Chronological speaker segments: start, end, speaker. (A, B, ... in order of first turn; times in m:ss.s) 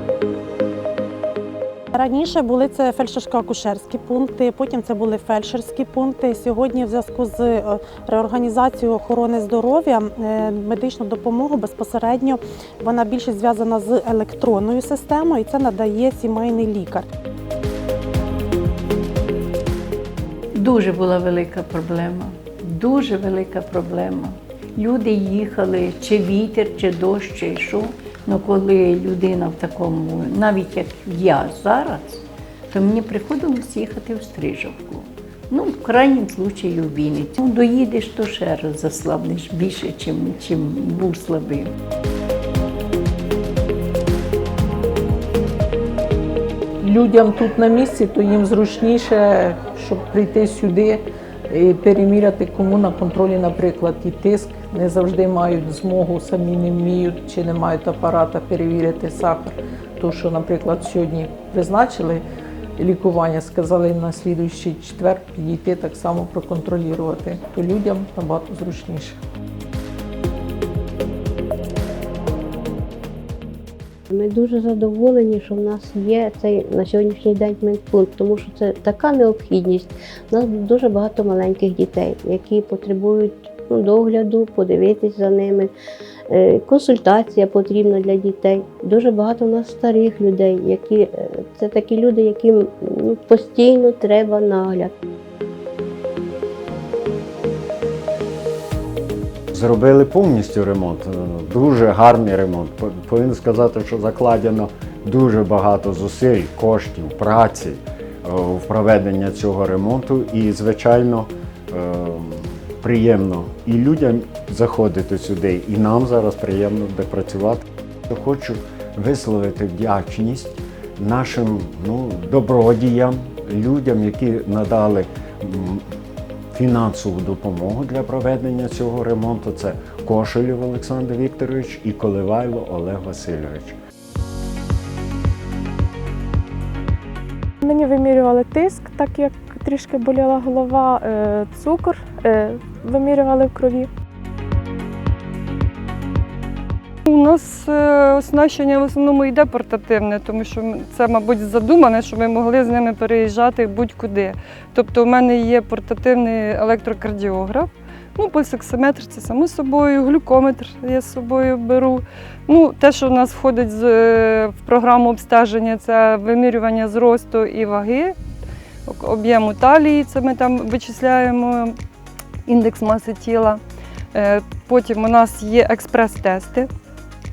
0:01.9-0:17.1 A
0:20.5-0:41.7 B
0:46.8-1:02.2 C
1:02.8-1:09.2 C
1:14.1-1:25.7 D
1:26.3-1:34.9 D
1:39.5-2:05.8 E
2:06.6-2:13.8 E
2:17.6-2:23.9 F
2:27.1-2:48.2 G
2:48.9-2:51.8 G
2:52.5-2:53.6 G
2:54.1-2:56.7 G